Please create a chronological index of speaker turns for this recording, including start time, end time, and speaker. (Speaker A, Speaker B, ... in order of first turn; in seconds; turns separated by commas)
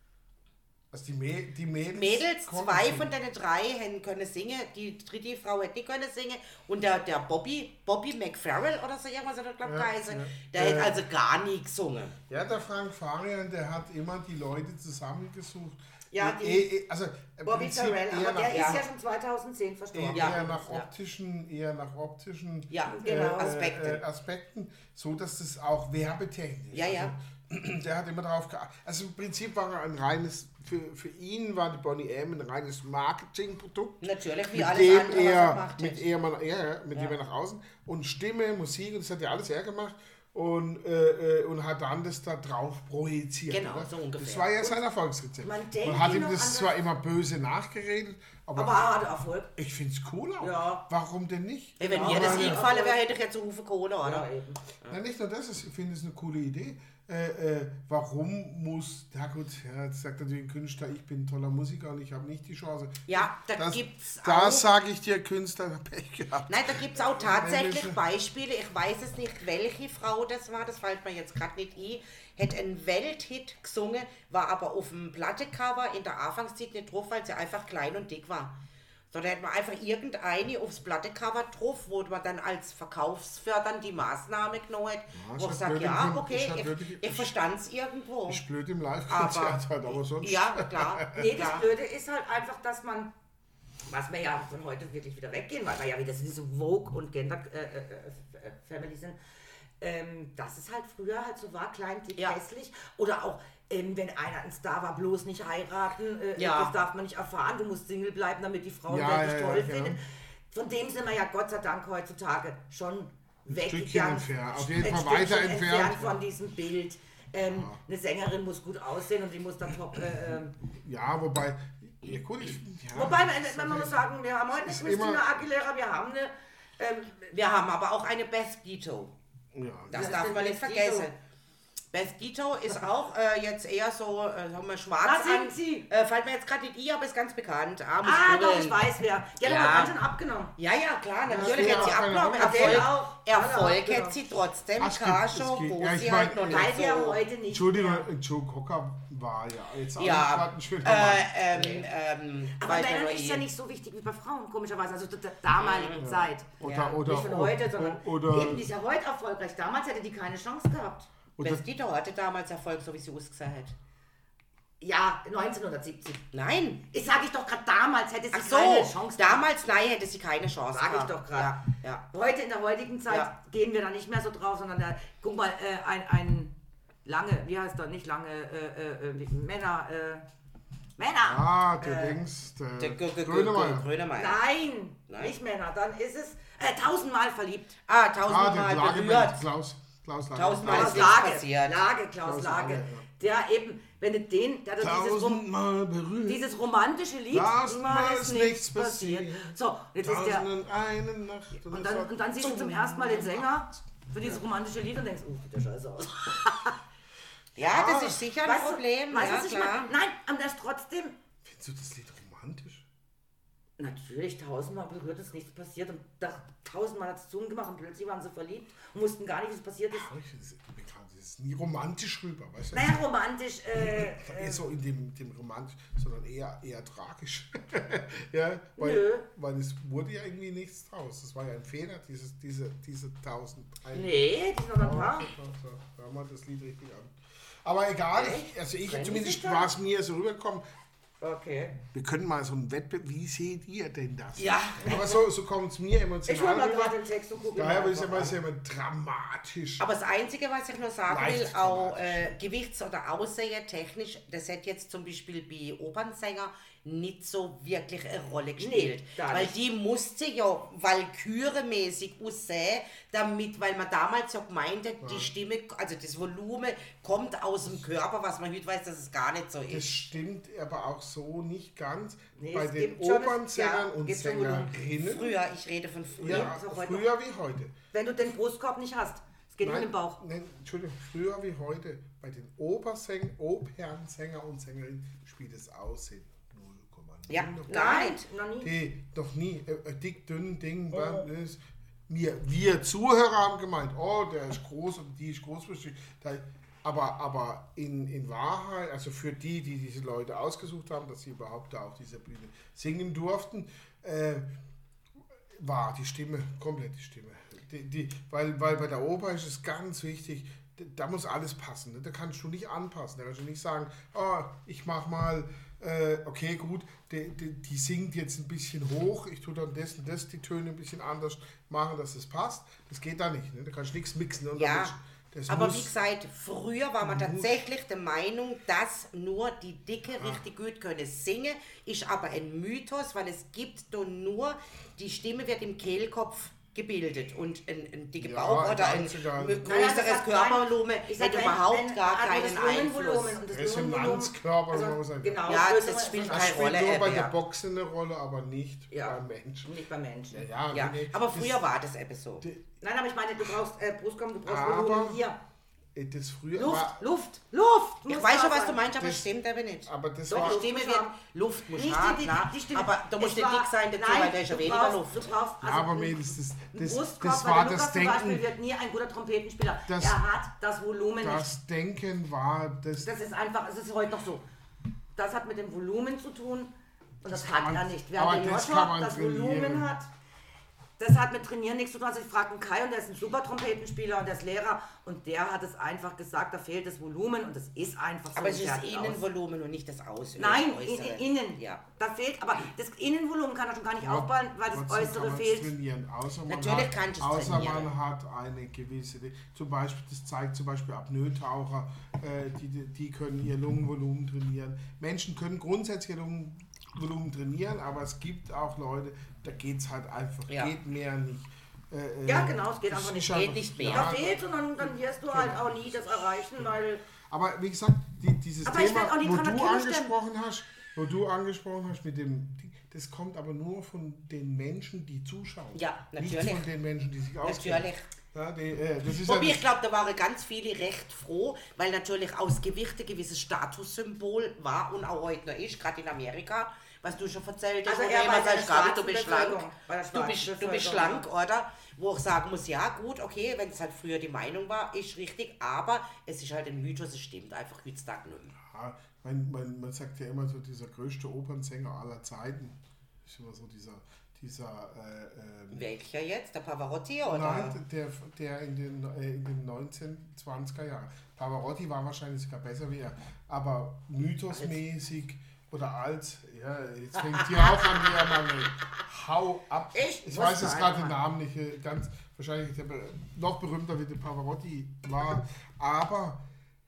Speaker A: 0.9-3.1, Speaker B: 1.9-12.1, Speaker A: 9.6-11.0, Speaker A: 12.3-18.9, Speaker C: 16.1-16.6, Speaker C: 17.4-20.6, Speaker B: 18.4-18.8, Speaker A: 19.9-48.9, Speaker B: 20.1-20.9, Speaker B: 22.7-24.0, Speaker C: 23.0-23.4, Speaker B: 26.7-27.1, Speaker B: 34.0-36.0, Speaker B: 43.5-44.5, Speaker C: 45.4-46.8, Speaker C: 48.5-49.5, Speaker A: 49.5-52.6, Speaker C: 50.4-50.8, Speaker B: 51.8-54.3, Speaker C: 51.8-53.0, Speaker C: 54.0-54.6, Speaker A: 54.9-68.0, Speaker B: 63.1-64.7, Speaker B: 66.5-78.5, Speaker B: 79.1-88.4, Speaker A: 85.1-87.3, Speaker A: 88.3-91.3, Speaker B: 89.1-91.6, Speaker C: 91.1-93.1, Speaker C: 93.8-99.2, Speaker C: 99.8-110.0, Speaker B: 106.4-106.7, Speaker A: 108.9-110.0, Speaker C: 110.5-120.5, Speaker A: 113.5-116.2, Speaker A: 117.4-117.8, Speaker A: 120.6-124.0, Speaker C: 122.9-127.3, Speaker A: 124.6-125.2, Speaker B: 127.3-129.1, Speaker A: 129.5-130.3, Speaker B: 129.9-131.2, Speaker C: 129.9-131.1, Speaker B: 131.9-138.8, Speaker C: 135.0-135.9, Speaker C: 138.0-140.5, Speaker B: 139.4-139.9, Speaker B: 140.6-147.2, Speaker A: 141.3-142.9, Speaker C: 141.3-144.2, Speaker A: 144.8-146.7, Speaker C: 146.4-148.0, Speaker A: 147.5-151.8, Speaker B: 150.0-153.4, Speaker C: 152.6-161.1, Speaker B: 155.6-156.0, Speaker A: 156.0-158.7, Speaker B: 156.6-157.0, Speaker A: 161.4-161.6, Speaker B: 161.4-163.8, Speaker C: 164.8-166.2, Speaker B: 166.3-166.8, Speaker C: 166.9-169.5, Speaker B: 168.3-172.1, Speaker C: 170.7-176.5, Speaker C: 177.0-180.2, Speaker C: 181.0-182.2, Speaker A: 181.2-183.9, Speaker B: 182.8-184.4, Speaker C: 184.2-187.7, Speaker B: 185.1-185.3, Speaker B: 187.9-189.4, Speaker A: 188.2-191.3, Speaker B: 190.3-191.8, Speaker C: 190.6-195.4, Speaker A: 192.2-193.0, Speaker A: 194.8-196.4, Speaker C: 196.2-200.5, Speaker A: 197.3-203.5, Speaker C: 201.7-206.7, Speaker B: 207.6-209.9, Speaker A: 207.6-208.2, Speaker C: 208.4-211.2, Speaker A: 211.4-212.8, Speaker C: 213.8-220.1, Speaker A: 219.9-223.0, Speaker C: 222.7-224.6, Speaker A: 223.7-234.2, Speaker C: 228.8-229.2, Speaker C: 233.9-235.3, Speaker A: 234.8-240.6, Speaker B: 238.1-238.5, Speaker C: 238.8-239.7, Speaker C: 241.2-241.8, Speaker A: 241.9-247.0, Speaker B: 244.4-245.0, Speaker C: 244.8-245.2, Speaker C: 246.2-248.3, Speaker A: 247.5-249.8, Speaker B: 249.8-270.1, Speaker A: 251.1-252.3, Speaker C: 258.6-259.5, Speaker A: 265.0-265.3, Speaker A: 269.7-275.4, Speaker C: 272.4-274.7, Speaker B: 274.9-276.5, Speaker A: 276.2-277.7, Speaker C: 276.2-277.1, Speaker C: 277.9-280.2, Speaker A: 279.6-288.1, Speaker B: 287.3-288.2, Speaker C: 287.7-288.7, Speaker A: 288.6-304.5, Speaker A: 305.5-325.9, Speaker B: 324.6-324.9, Speaker B: 325.5-343.4, Speaker A: 327.0-327.6, Speaker A: 338.2-339.6, Speaker C: 339.6-346.7, Speaker A: 343.4-345.6, Speaker B: 345.4-347.3, Speaker A: 346.3-349.7, Speaker C: 348.9-350.5, Speaker A: 350.3-351.6, Speaker B: 350.7-352.4, Speaker A: 352.4-352.7, Speaker C: 352.8-355.4, Speaker A: 354.4-355.2, Speaker A: 355.9-357.1, Speaker C: 356.5-358.8, Speaker B: 358.1-365.2, Speaker A: 359.0-359.3, Speaker A: 359.9-360.6, Speaker C: 360.3-361.1, Speaker C: 361.7-366.2, Speaker A: 365.6-368.4, Speaker C: 366.7-371.5, Speaker A: 369.9-370.2, Speaker A: 371.2-373.1, Speaker C: 373.0-374.4, Speaker C: 375.1-380.1, Speaker A: 377.2-379.9, Speaker C: 381.0-389.2, Speaker B: 388.3-391.8, Speaker C: 390.4-395.7, Speaker A: 394.0-416.7, Speaker B: 396.5-397.9, Speaker B: 410.5-410.7, Speaker C: 412.2-417.0, Speaker B: 413.3-414.1, Speaker A: 417.3-429.6, Speaker C: 418.6-420.1, Speaker B: 425.7-426.7, Speaker B: 427.4-428.1, Speaker B: 429.1-448.5, Speaker C: 437.9-441.2, Speaker A: 448.6-455.9, Speaker B: 455.7-457.8, Speaker A: 457.2-476.4, Speaker B: 464.5-464.8, Speaker C: 467.8-468.1, Speaker C: 469.9-471.2